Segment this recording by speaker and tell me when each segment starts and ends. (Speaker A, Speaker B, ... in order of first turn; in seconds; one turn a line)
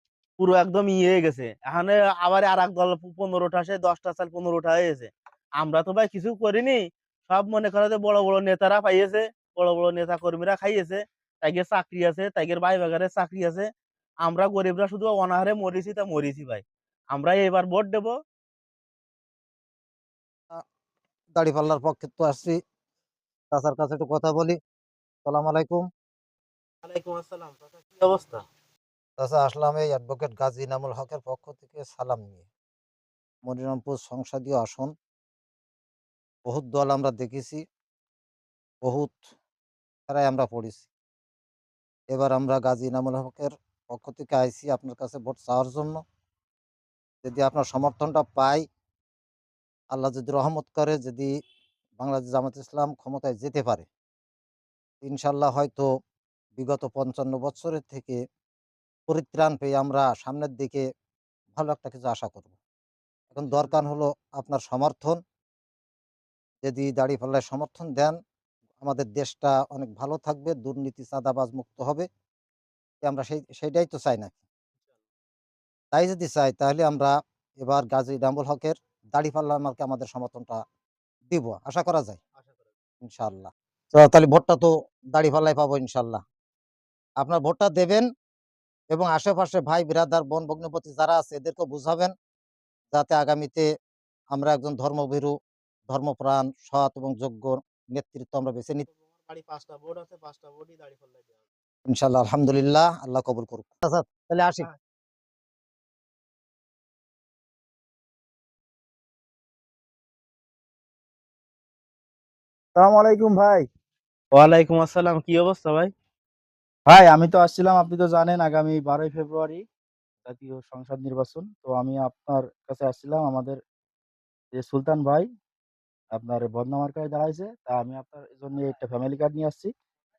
Speaker A: 0.4-13.7
Speaker A: 14.2-18.1
Speaker B: 21.4-22.6
Speaker B: 23.5-24.6
Speaker B: 25.2-25.9
Speaker A: 26.8-28.4
Speaker B: 29.2-32.4
Speaker B: 33.5-34.9
Speaker B: 36.5-37.6
Speaker B: 38.8-39.2
Speaker B: 40.1-40.9
Speaker B: 42.1-46.0
Speaker B: 47.2-48.6
Speaker B: 49.9-51.3
Speaker B: 52.0-53.9
Speaker B: 55.0-55.9
Speaker B: 56.6-58.2
Speaker B: 59.1-60.8
Speaker B: 61.5-62.5
Speaker B: 63.3-65.2
Speaker B: 66.6-68.2
Speaker B: 68.8-72.1
Speaker B: 73.0-74.4
Speaker B: 75.9-80.6
Speaker B: 81.3-82.2
Speaker B: 83.0-86.2
Speaker B: 87.2-88.0
Speaker B: 88.9-92.1
Speaker B: 92.9-93.7
Speaker B: 94.3-95.3
Speaker B: 95.9-98.9
Speaker A: 98.9-101.4
Speaker B: 101.9-104.7
Speaker C: 112.8-113.7
Speaker A: 114.3-115.9
Speaker C: 116.9-119.6
Speaker C: 120.2-123.6
Speaker C: 124.5-125.3
Speaker C: 126.1-129.7